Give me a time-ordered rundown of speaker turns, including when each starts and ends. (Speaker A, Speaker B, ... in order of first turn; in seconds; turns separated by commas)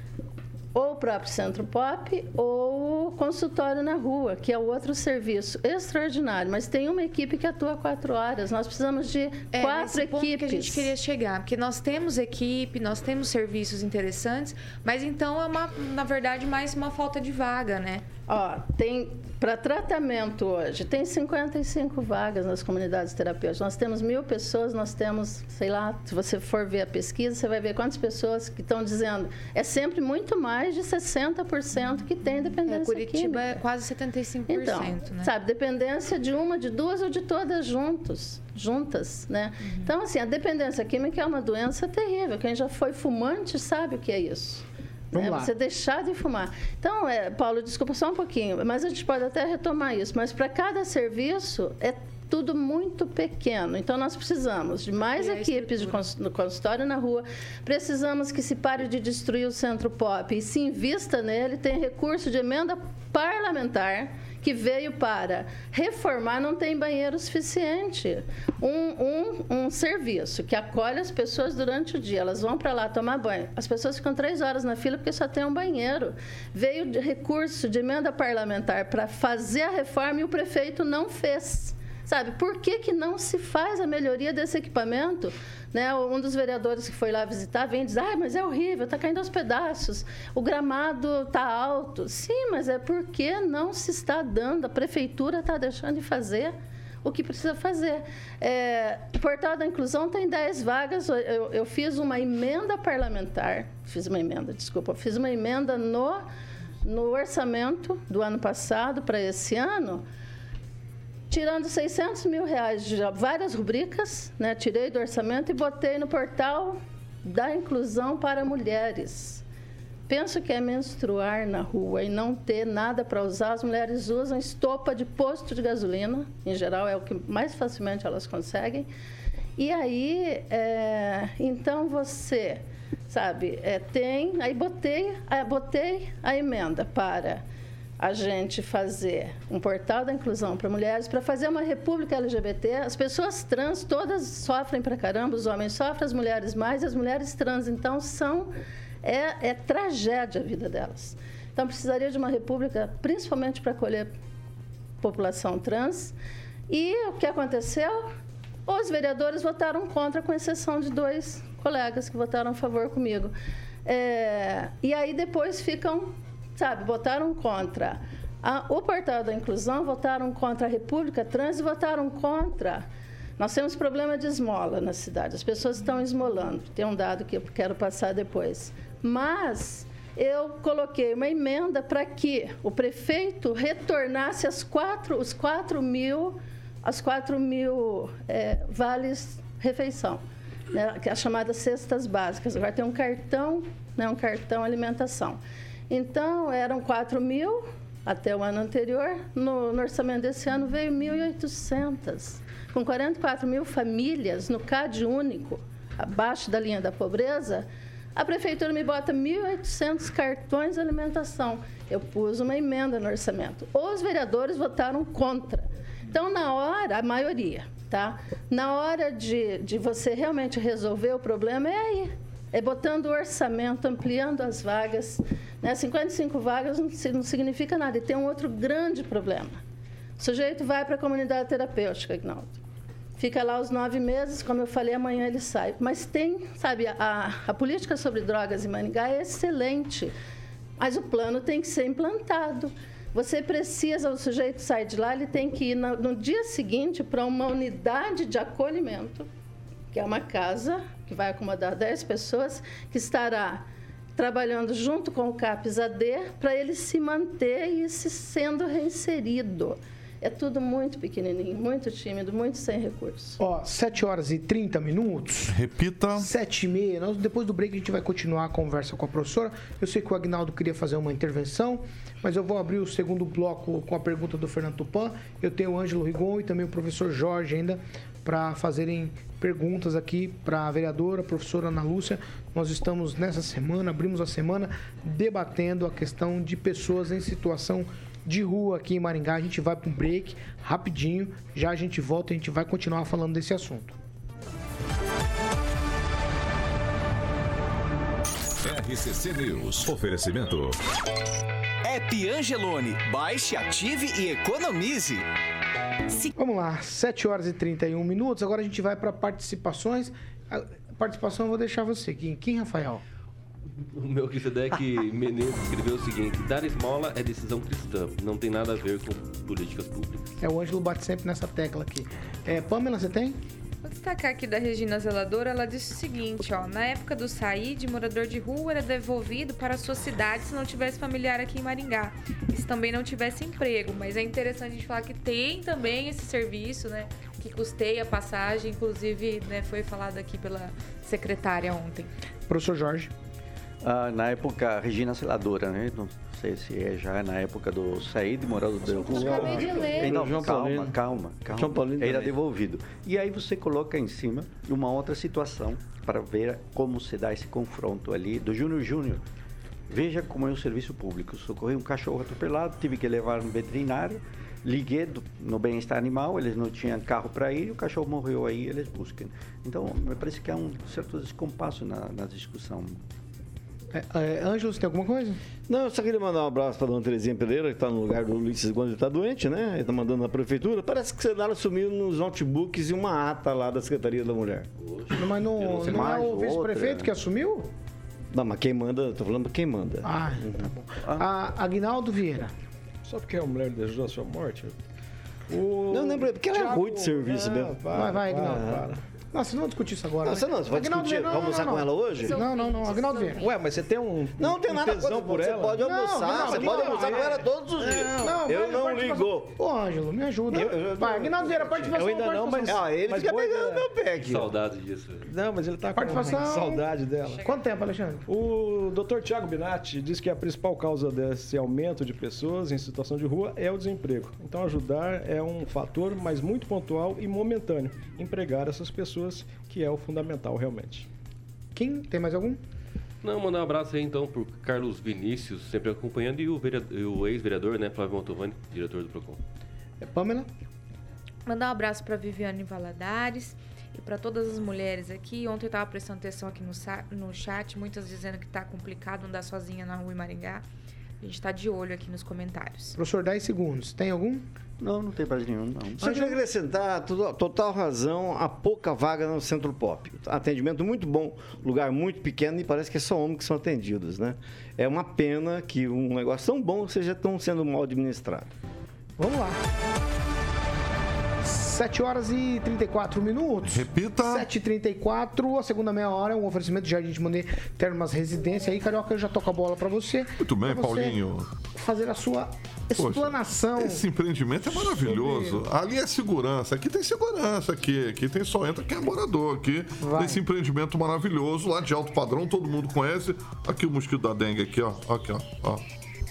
Speaker A: 0.7-10.9, Speaker B: 9.5-18.0, Speaker A: 18.3-33.6, Speaker B: 32.6-35.3, Speaker A: 34.5-106.2, Speaker B: 39.6-39.9, Speaker C: 45.1-45.5, Speaker B: 55.1-56.1, Speaker A: 106.8-110.0, Speaker A: 111.3-119.4, Speaker A: 120.1-128.9, Speaker A: 129.6-137.4, Speaker A: 138.0-148.5, Speaker A: 149.0-154.1, Speaker A: 155.0-156.1, Speaker A: 156.7-158.1, Speaker A: 158.7-163.3, Speaker A: 163.8-172.8, Speaker A: 173.4-195.4, Speaker A: 195.9-229.6, Speaker A: 230.2-232.6, Speaker A: 233.2-240.1, Speaker A: 240.8-249.3, Speaker A: 249.9-253.6, Speaker A: 254.2-263.4, Speaker C: 263.4-265.6, Speaker D: 265.5-266.3, Speaker C: 266.1-293.9, Speaker E: 298.6-300.8, Speaker F: 301.8-305.2, Speaker C: 306.3-313.0, Speaker G: 313.9-320.2, Speaker C: 320.4-323.4, Speaker B: 323.8-342.1, Speaker C: 342.5-343.1, Speaker H: 343.8-359.2, Speaker I: 349.0-350.9, Speaker B: 349.1-350.2, Speaker I: 351.5-352.3, Speaker H: 359.9-373.0, Speaker C: 373.9-375.4, Speaker I: 375.7-384.7, Speaker G: 384.9-386.3, Speaker C: 385.1-387.7, Speaker H: 385.6-387.1, Speaker I: 388.3-390.7, Speaker C: 390.0-392.5, Speaker J: 393.1-394.7, Speaker J: 395.5-399.0, Speaker I: 395.9-398.9, Speaker C: 397.9-403.4, Speaker I: 400.2-402.3, Speaker B: 402.2-403.6, Speaker J: 403.4-407.4, Speaker I: 404.4-409.5, Speaker C: 405.8-412.8, Speaker I: 410.5-412.0, Speaker J: 411.9-413.9, Speaker I: 412.6-414.4, Speaker G: 414.2-415.2, Speaker J: 415.2-417.4, Speaker C: 415.9-416.9, Speaker C: 417.4-418.2, Speaker J: 418.3-431.1, Speaker C: 431.7-432.6, Speaker G: 433.2-439.4, Speaker C: 440.0-440.5, Speaker B: 441.4-450.6, Speaker B: 451.2-452.9, Speaker C: 452.9-454.4, Speaker H: 454.8-456.3, Speaker C: 456.0-456.3, Speaker I: 456.0-468.5, Speaker C: 469.2-469.6, Speaker C: 471.4-481.1, Speaker D: 473.7-474.5, Speaker D: 480.4-481.5, Speaker C: 481.7-484.0, Speaker D: 483.0-495.8, Speaker C: 484.7-485.6, Speaker C: 490.0-490.4